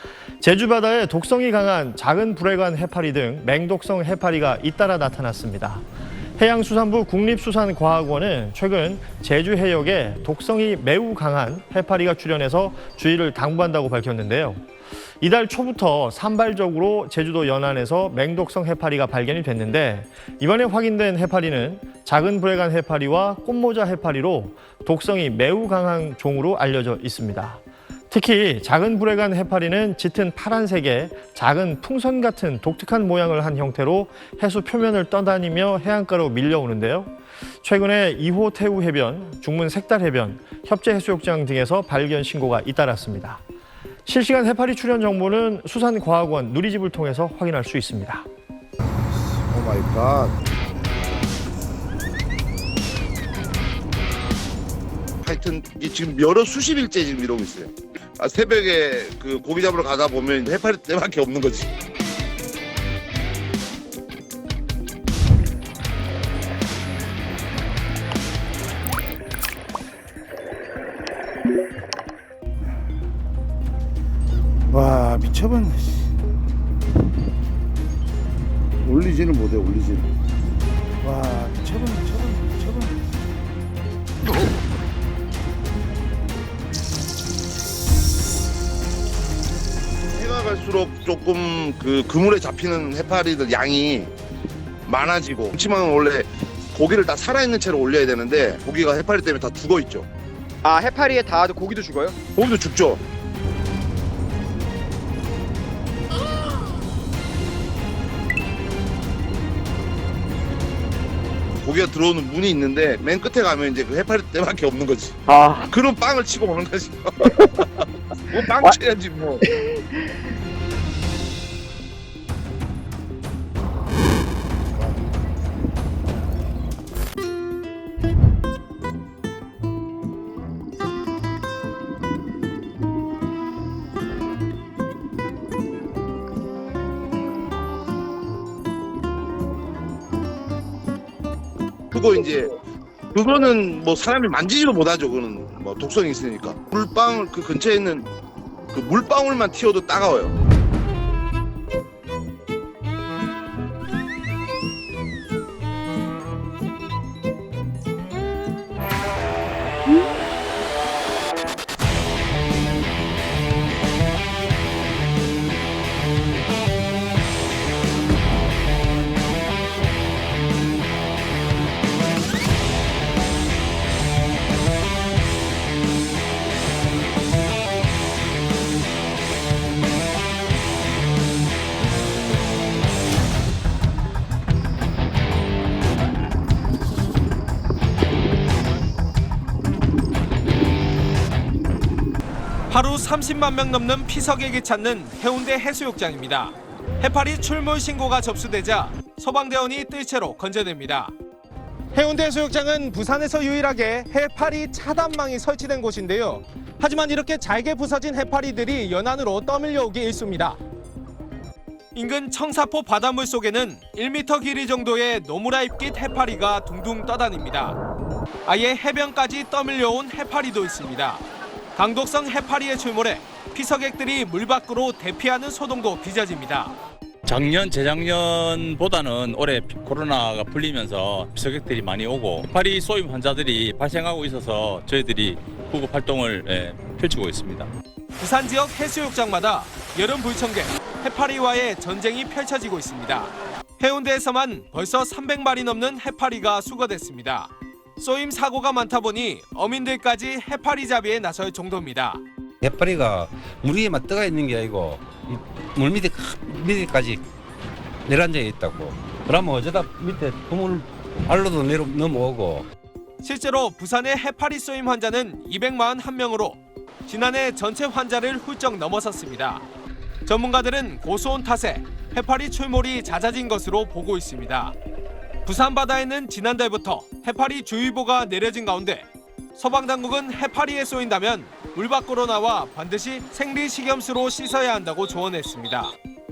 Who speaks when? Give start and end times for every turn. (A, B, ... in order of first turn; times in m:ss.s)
0:00.4-0:05.8 A
0:06.4-0:14.6 A
0:15.2-0:43.4 A
0:44.0-0:48.2 A
0:49.5-0:50.3 B
0:55.2-1:01.7 B
1:14.7-1:16.0 C
1:18.8-1:20.1 C
1:21.0-1:23.0 C
1:30.1-1:34.1 B
1:34.8-1:40.1 B
1:40.6-1:42.2 D
1:42.3-1:43.0 B
1:51.6-1:59.4 B
1:55.3-1:55.7 D
2:21.9-2:22.6 B
2:23.1-2:28.1 B
2:28.7-2:30.4 B
3:12.7-3:21.1 E
3:21.9-3:30.6 E
3:31.9-3:37.8 E
3:38.5-3:41.2 E
3:41.8-3:46.7 E
3:47.2-3:57.7 F
3:58.2-4:12.2 E
4:12.6-4:17.2 G
4:18.0-4:22.7 G
4:23.2-4:29.6 E
4:30.2-4:34.7 E
4:35.4-4:45.9 E